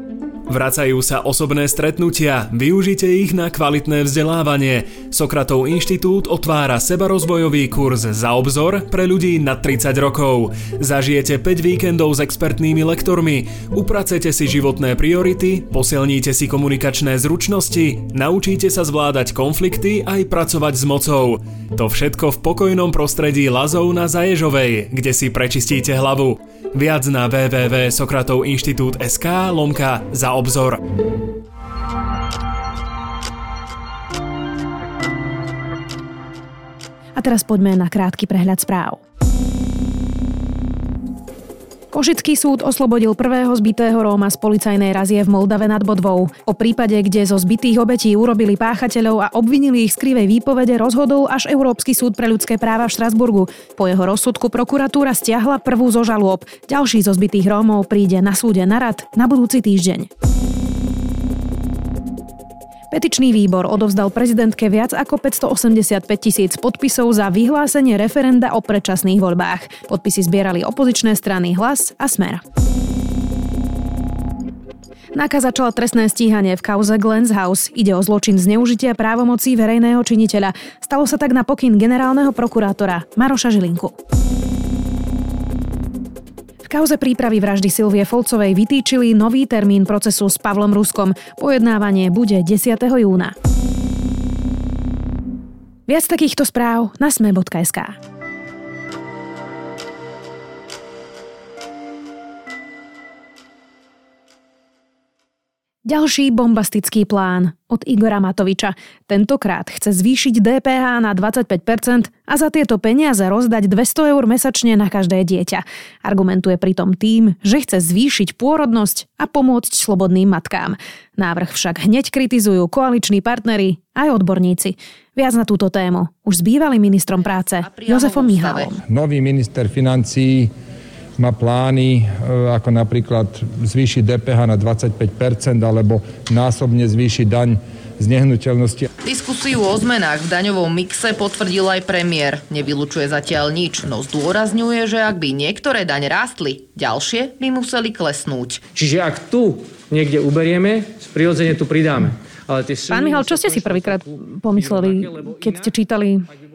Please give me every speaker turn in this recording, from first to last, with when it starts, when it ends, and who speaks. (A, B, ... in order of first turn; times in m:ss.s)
0:00.5-0:30.8 A
0:37.2-0:39.0 B
0:41.9-1:00.1 B
1:02.9-1:12.4 B
1:15.1-1:24.0 B
1:26.7-1:33.4 B
1:35.9-1:38.0 B
1:45.8-2:08.8 B
2:07.2-2:08.7 C
2:08.9-2:10.5 D
2:11.2-2:18.9 D
2:19.0-2:28.6 C
2:28.7-2:35.8 E
2:32.9-2:36.3 B